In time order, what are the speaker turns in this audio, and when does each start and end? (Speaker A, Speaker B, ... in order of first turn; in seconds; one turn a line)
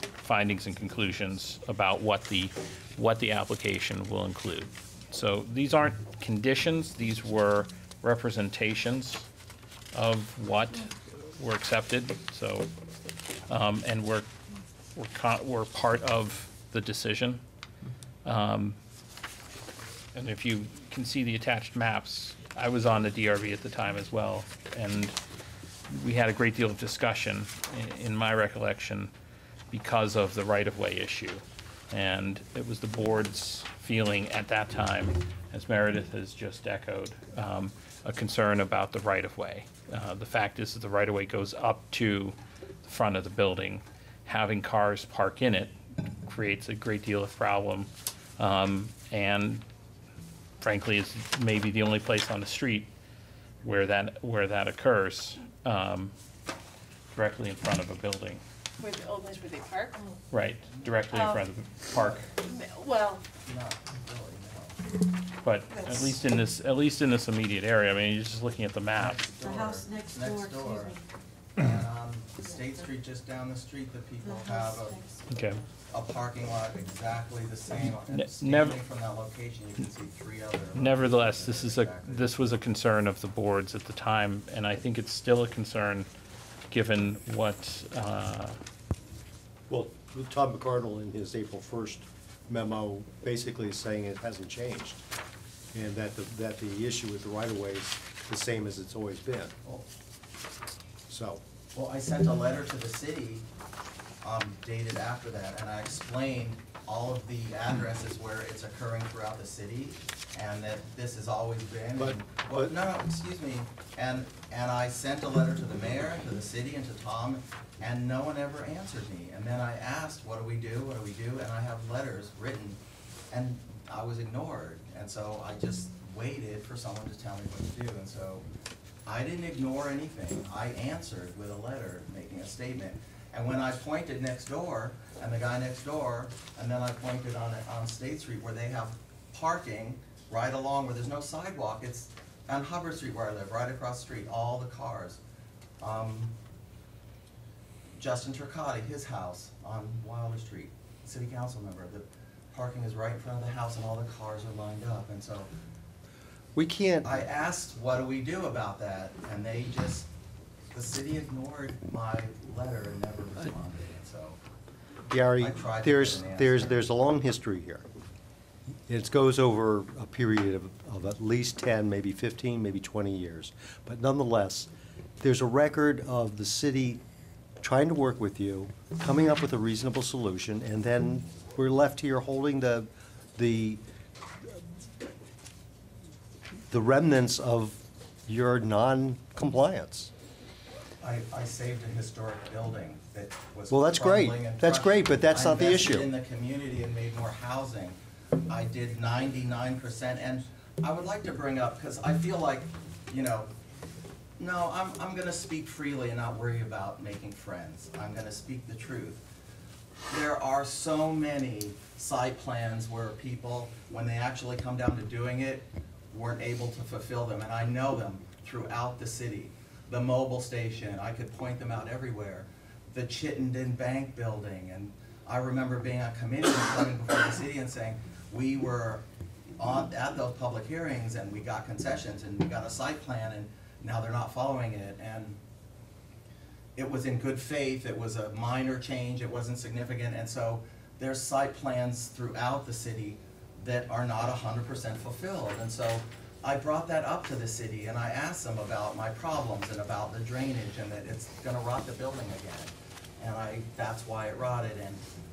Speaker A: 0.2-9.3
Speaker A: 9.9-12.7
Speaker A: 13.5-14.3
Speaker A: 14.9-17.4
Speaker A: 18.2-18.8
Speaker A: 20.1-25.1
Speaker A: 25.9-29.1
Speaker A: 29.7-45.7
Speaker A: 46.2-49.6
Speaker A: 50.6-52.9
Speaker A: 53.6-56.1
Speaker A: 57.1-58.4
Speaker B: 58.8-60.0
Speaker A: 60.3-62.3
Speaker B: 61.1-61.4
Speaker C: 61.9-62.2
Speaker B: 62.4-63.2
Speaker C: 63.4-64.8
Speaker A: 65.4-69.2
Speaker C: 69.0-71.0
Speaker D: 69.3-71.1
Speaker C: 71.5-75.0
Speaker D: 72.4-72.9
Speaker D: 74.2-75.7
Speaker A: 75.3-75.6
Speaker C: 75.9-82.3
Speaker A: 78.1-78.8
Speaker A: 80.7-86.1
Speaker A: 86.7-88.6
Speaker E: 89.7-95.0
Speaker E: 95.7-99.6
Speaker E: 101.1-101.4
Speaker C: 101.7-103.5
Speaker C: 104.2-122.8
Speaker E: 112.0-112.7
Speaker C: 123.3-128.4
Speaker C: 129.1-145.2
Speaker C: 145.8-146.3
Speaker C: 147.9-155.5
Speaker E: 156.5-157.1
Speaker C: 157.0-160.1
Speaker C: 160.7-164.4
Speaker E: 165.1-167.8
Speaker C: 165.4-166.8
Speaker E: 168.9-177.0
Speaker E: 177.6-183.8
Speaker E: 186.7-190.1
Speaker C: 191.0-203.5
Speaker E: 193.7-196.1
Speaker C: 204.4-209.2
Speaker C: 210.1-229.0
Speaker C: 229.6-235.4
Speaker C: 236.8-255.1